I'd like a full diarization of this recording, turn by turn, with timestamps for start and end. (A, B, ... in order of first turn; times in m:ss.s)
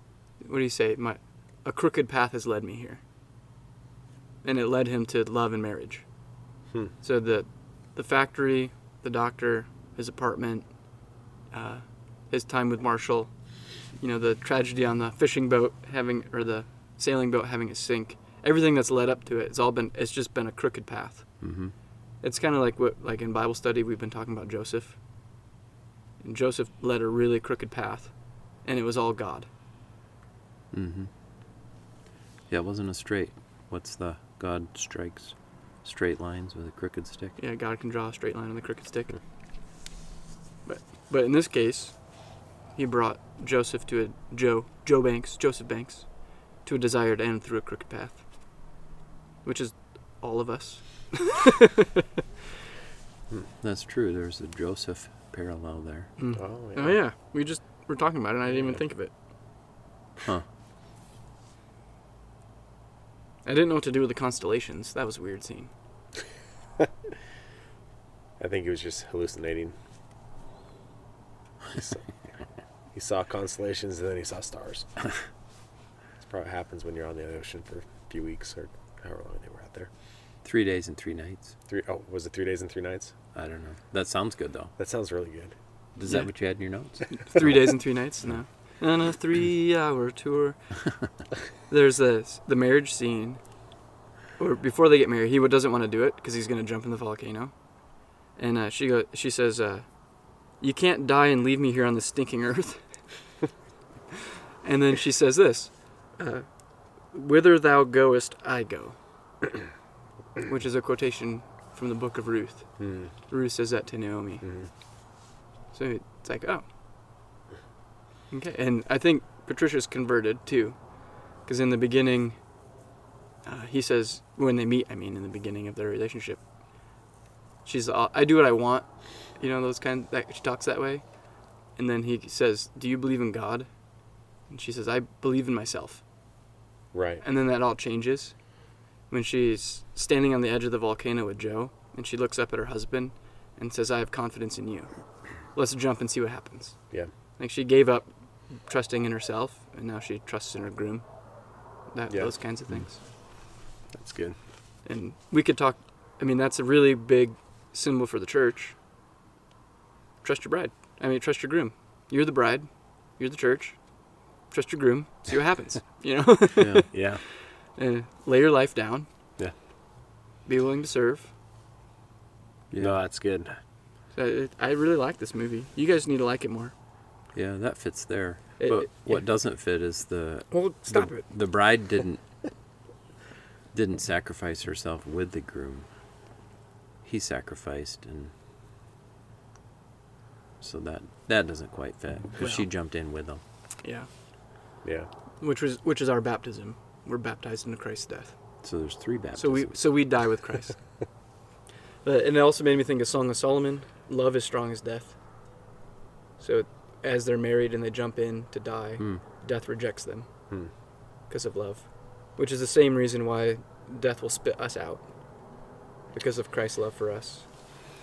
0:00.4-0:03.0 A
0:04.4-0:06.0 A
0:07.0-0:10.7 A
0:11.5-0:13.4 A
0:14.0-0:21.3 A
0:21.4-0:21.7 B
0:22.2-0:25.0 A
0:26.2-0:28.1 A
0:28.6-0:29.5 A
0:30.7-0:31.1 B
0:32.5-0:37.4 B
0:37.4-0:39.1 A
0:40.6-0:42.0 A
0:42.7-0:48.2 A
0:49.4-0:52.0 A
0:53.6-0:56.1 B
0:56.2-0:59.1 A
0:56.3-0:57.0 C
0:58.5-0:58.8 C
1:03.4-1:05.7 A
1:08.4-1:09.7 C
1:11.7-1:12.1 C
1:12.9-1:14.9 C
1:16.2-1:19.9 C
1:20.4-1:21.5 B
1:21.7-1:23.1 C
1:23.3-1:24.7 B
1:24.8-1:25.5 C
1:26.0-1:27.8 B
1:27.1-1:30.6 A
1:31.7-1:33.4 A
1:34.4-1:37.5 A
1:38.4-1:39.9 A
1:40.6-1:42.8 A
1:44.6-1:46.4 A
1:47.1-1:49.0 A
1:50.4-1:54.4 A
1:52.8-1:53.1 C
1:54.4-1:54.7 C
1:55.7-1:56.6 A
1:58.3-2:00.8 A
2:01.4-2:02.4 A
2:03.4-2:06.4 A
2:07.6-2:11.0 A
2:11.8-2:13.7 A
2:14.5-2:16.0 A
2:16.9-2:17.2 C
2:17.2-2:18.4 A
2:19.1-2:24.9 A
2:25.5-2:26.8 A
2:27.4-2:31.0 A
2:31.9-2:33.0 A
2:33.9-2:34.4 C
2:34.8-2:38.7 A
2:40.2-2:43.8 A
2:44.5-2:49.1 A
2:46.6-2:46.9 B
2:46.9-2:47.2 C
2:50.5-2:51.3 A
2:52.7-2:53.0 B
2:52.8-2:53.5 C
2:54.1-2:56.7 A
2:57.3-3:02.2 B
2:58.6-2:59.2 A
3:00.5-3:01.2 A
3:03.7-3:05.9 B
3:07.0-3:08.3 B
3:10.6-3:13.4 B
3:12.4-3:12.7 A
3:13.8-3:14.1 A
3:15.4-3:18.3 A
3:18.6-3:19.9 B
3:19.4-3:20.8 A
3:22.0-3:25.2 A
3:26.4-3:30.3 A
3:31.3-3:35.0 A
3:36.1-3:37.5 A